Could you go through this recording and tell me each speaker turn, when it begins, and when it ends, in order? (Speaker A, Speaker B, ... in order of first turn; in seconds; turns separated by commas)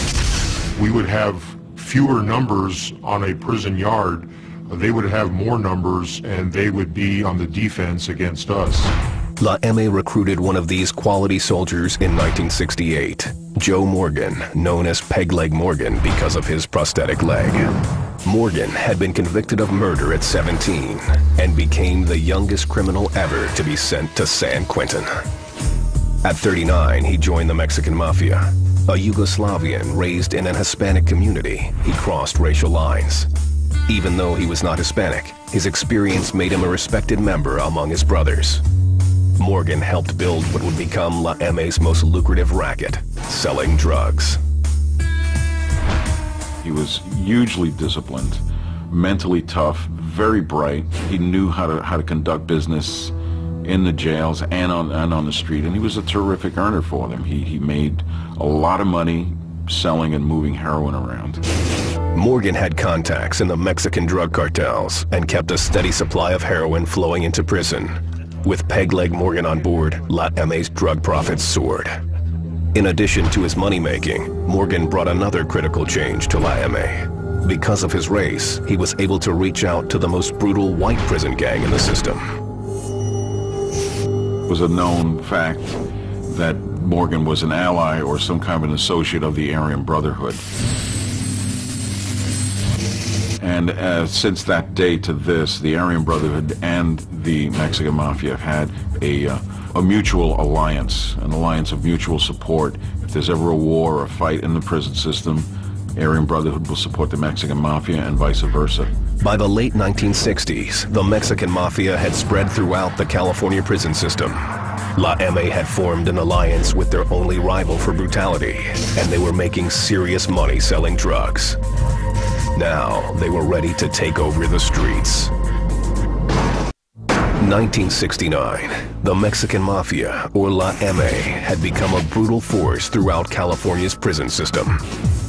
Speaker A: 0.8-8.9, Speaker B: 9.4-17.7, Speaker B: 18.2-25.1, Speaker B: 26.2-33.3, Speaker B: 33.9-38.6, Speaker B: 39.4-44.4, Speaker C: 46.6-61.4, Speaker B: 62.1-72.0, Speaker B: 72.7-82.2, Speaker C: 84.5-90.4, Speaker C: 93.4-108.9, Speaker B: 109.2-121.6, Speaker B: 122.5-125.3, Speaker B: 127.4-134.8